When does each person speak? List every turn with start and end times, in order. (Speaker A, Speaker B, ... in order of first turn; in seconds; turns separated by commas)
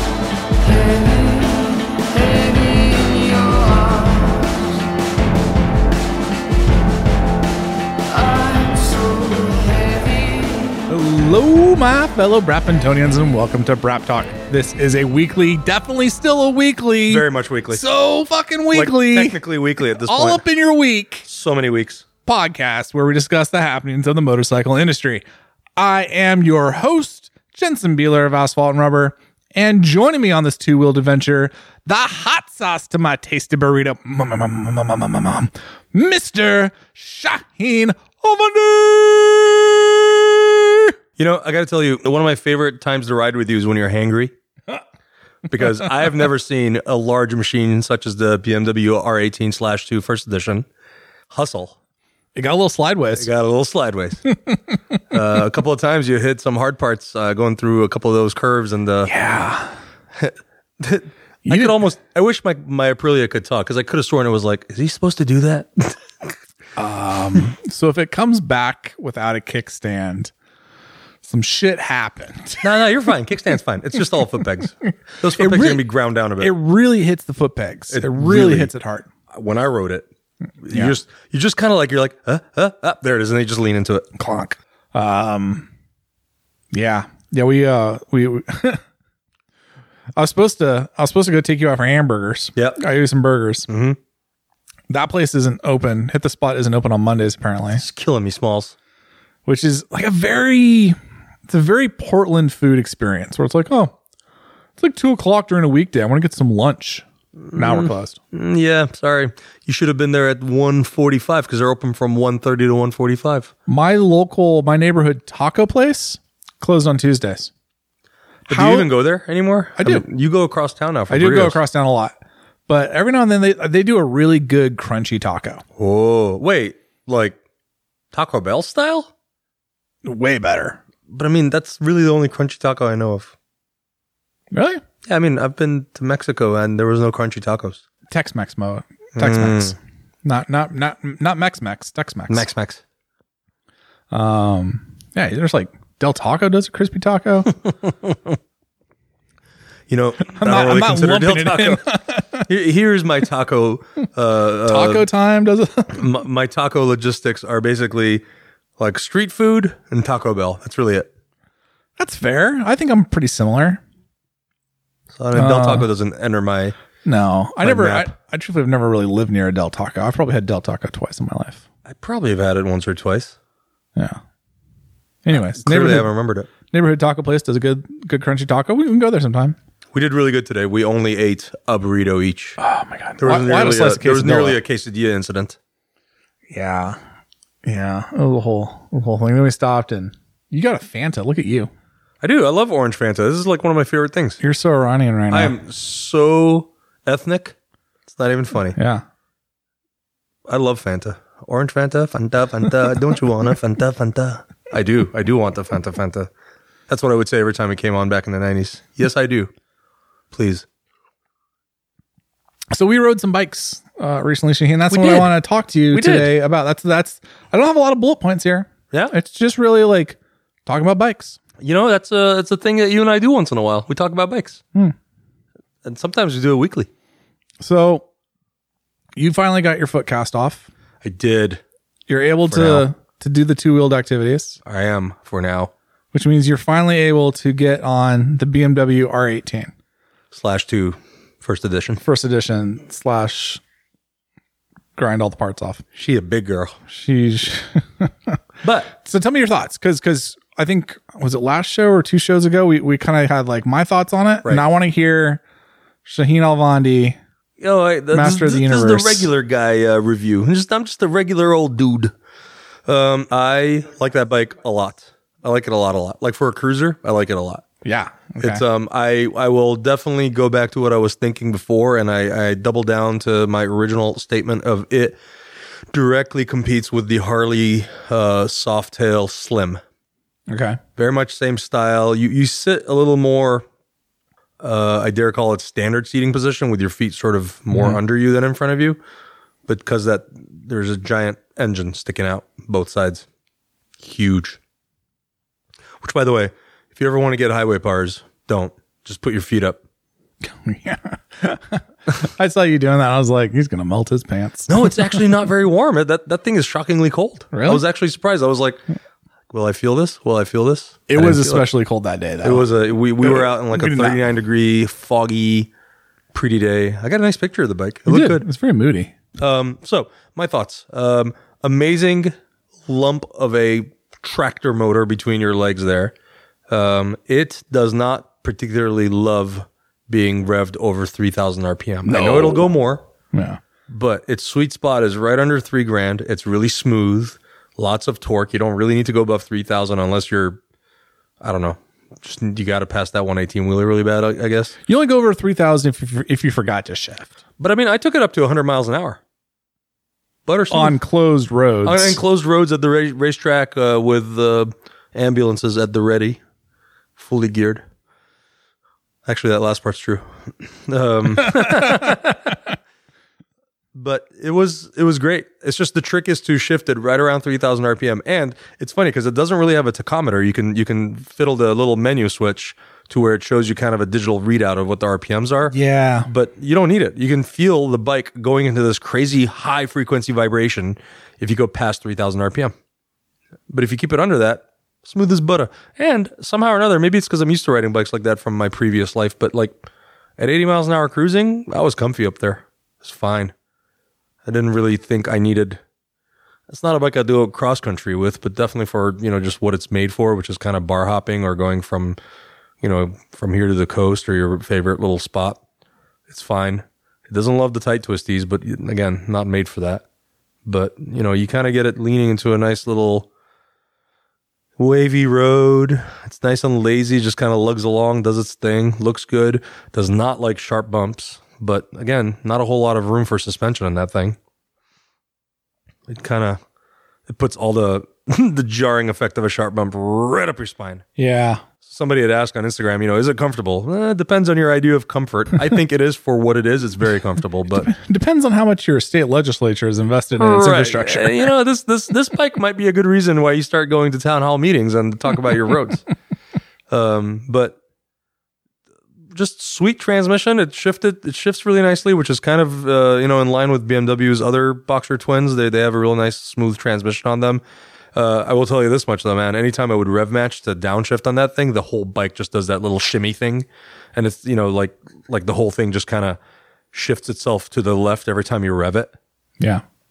Speaker A: 0.6-4.5, Speaker A: 8.1-10.8, Speaker B: 10.9-19.4, Speaker C: 17.1-17.8, Speaker C: 18.7-20.4, Speaker B: 19.9-21.2, Speaker C: 21.2-22.0, Speaker B: 22.2-25.2, Speaker B: 25.8-40.9, Speaker C: 41.2-44.3, Speaker C: 45.5-50.7, Speaker C: 51.3-51.8, Speaker B: 52.3-53.3, Speaker C: 53.2-54.2, Speaker B: 54.3-54.8, Speaker C: 55.1-59.1, Speaker B: 59.0-59.7, Speaker C: 60.1-66.3, Speaker B: 61.5-61.7, Speaker B: 66.8-70.3, Speaker B: 71.2-72.7, Speaker C: 72.6-76.5, Speaker B: 75.4-75.8, Speaker B: 76.4-79.1, Speaker C: 77.9-78.7, Speaker C: 79.3-80.1, Speaker C: 80.6-84.1, Speaker B: 80.7-80.9, Speaker B: 84.2-85.7, Speaker B: 86.7-88.8, Speaker B: 90.2-93.7, Speaker C: 93.7-94.0, Speaker B: 94.9-97.8, Speaker C: 97.8-98.7, Speaker B: 99.5-101.0, Speaker B: 101.5-104.0, Speaker B: 104.8-108.2, Speaker C: 107.4-113.5, Speaker B: 113.7-117.5, Speaker C: 118.5-121.6, Speaker B: 118.5-118.9, Speaker B: 119.8-120.0, Speaker B: 121.1-122.2, Speaker B: 122.7-125.6, Speaker C: 125.8-127.4, Speaker C: 128.1-129.1, Speaker B: 130.0-130.8, Speaker C: 131.1-133.3, Speaker B: 134.5-134.8, Speaker C: 135.1-137.8, Speaker B: 138.1-142.5, Speaker C: 139.2-139.7, Speaker C: 142.3-142.8, Speaker B: 144.1-147.5, Speaker C: 147.9-148.3, Speaker C: 149.9-151.8, Speaker B: 150.2-152.5, Speaker C: 152.5-155.1, Speaker B: 154.6-156.0, Speaker C: 155.9-158.2, Speaker C: 158.8-161.1, Speaker B: 162.0-163.8, Speaker C: 165.1-166.7, Speaker B: 165.3-165.9, Speaker B: 167.0-171.6, Speaker C: 167.6-168.1, Speaker C: 171.8-173.3, Speaker B: 175.2-176.1, Speaker C: 175.3-176.5, Speaker B: 176.7-179.6, Speaker C: 179.9-182.6, Speaker B: 182.6-184.6, Speaker C: 183.2-185.6, Speaker B: 186.5-187.0, Speaker B: 187.6-191.7, Speaker C: 192.2-194.4, Speaker B: 194.4-195.5, Speaker C: 195.3-197.5, Speaker C: 198.1-198.8, Speaker B: 198.7-199.0, Speaker C: 200.5-206.3, Speaker C: 206.9-209.5, Speaker C: 210.3-210.6, Speaker B: 212.7-221.4, Speaker C: 214.9-215.4, Speaker C: 215.9-216.3, Speaker C: 221.6-224.6, Speaker C: 225.8-226.9, Speaker B: 227.6-228.1, Speaker B: 229.2-230.7, Speaker C: 231.0-231.6, Speaker B: 232.1-234.6, Speaker C: 232.5-232.9, Speaker C: 234.6-235.7, Speaker B: 236.1-239.7, Speaker C: 240.3-242.0, Speaker B: 242.0-243.6, Speaker B: 244.9-245.8, Speaker C: 245.9-246.8, Speaker B: 246.9-248.4, Speaker C: 248.6-248.9, Speaker B: 248.9-255.4, Speaker B: 256.0-257.2, Speaker C: 257.6-262.1, Speaker B: 258.1-259.3, Speaker C: 262.9-267.6, Speaker B: 267.8-268.6, Speaker C: 268.4-275.2, Speaker C: 275.9-279.8, Speaker B: 280.5-280.8, Speaker C: 281.0-283.6, Speaker C: 284.6-289.0, Speaker B: 287.7-288.0, Speaker C: 289.6-293.2, Speaker C: 294.0-294.6, Speaker C: 296.0-299.8, Speaker B: 300.4-305.2, Speaker C: 304.7-308.8, Speaker B: 307.5-307.8, Speaker C: 309.5-311.7, Speaker B: 311.1-312.7, Speaker C: 312.4-315.7, Speaker B: 313.2-314.2, Speaker C: 316.3-318.4, Speaker B: 318.1-319.1, Speaker C: 319.4-322.3, Speaker C: 322.9-326.1, Speaker C: 326.7-333.0, Speaker B: 332.0-332.7, Speaker B: 333.3-333.6, Speaker C: 333.9-340.6, Speaker C: 341.4-344.7, Speaker B: 344.9-347.4, Speaker C: 347.6-349.2, Speaker C: 350.4-351.0, Speaker B: 350.7-352.2, Speaker C: 351.8-356.4, Speaker C: 357.2-357.8, Speaker C: 359.2-362.6, Speaker B: 361.6-362.0, Speaker C: 363.9-375.7, Speaker B: 375.7-376.3, Speaker C: 376.3-382.7, Speaker C: 383.7-389.9, Speaker C: 390.4-393.5, Speaker C: 394.4-395.8, Speaker C: 396.7-402.2, Speaker C: 402.8-405.6, Speaker C: 406.3-410.0, Speaker C: 410.6-413.3, Speaker C: 414.8-424.4, Speaker C: 426.1-426.6, Speaker C: 427.3-431.0, Speaker B: 431.2-431.6, Speaker C: 431.8-437.9, Speaker B: 437.7-441.5, Speaker C: 440.4-446.0, Speaker C: 446.9-447.8, Speaker C: 449.3-457.6, Speaker C: 458.1-466.4, Speaker C: 466.9-469.1